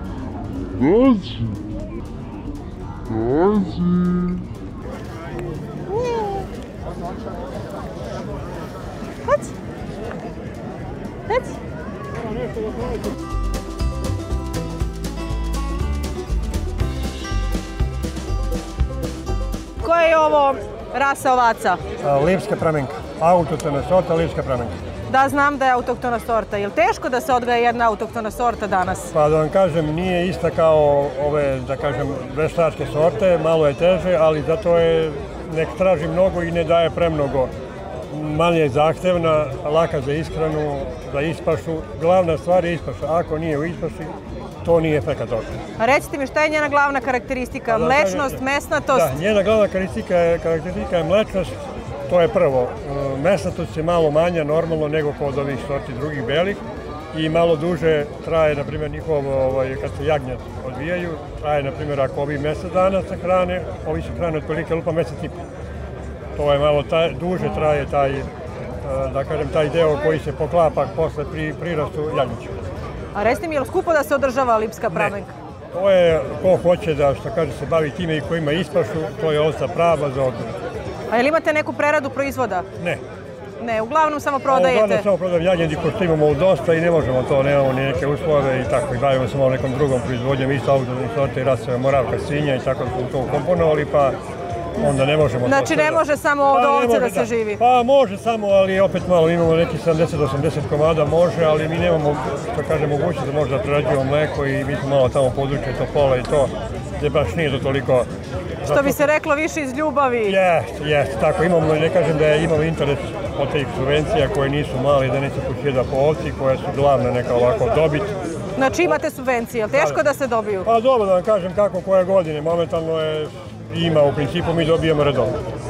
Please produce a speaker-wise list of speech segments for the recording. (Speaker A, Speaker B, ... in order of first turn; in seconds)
Speaker A: 5.9-6.5, 9.2-9.5, 11.3-11.6, 19.8-21.8, 25.1-29.1, 45.8-49.1, 73.1-75.3, 81.1-82.7, 83.6-85.0, 94.8-97.6, 108.7-110.4, 118.6-120.7
Speaker B: 22.0-24.8, 29.1-37.5, 38.1-45.5, 47.7-51.5, 52.1-56.6, 57.1-65.4, 66.3-68.3, 68.8-72.5, 75.7-80.5, 84.5-94.2, 94.8-108.1, 108.6-109.0, 110.3-118.1, 119.7-120.0, 120.6-125.3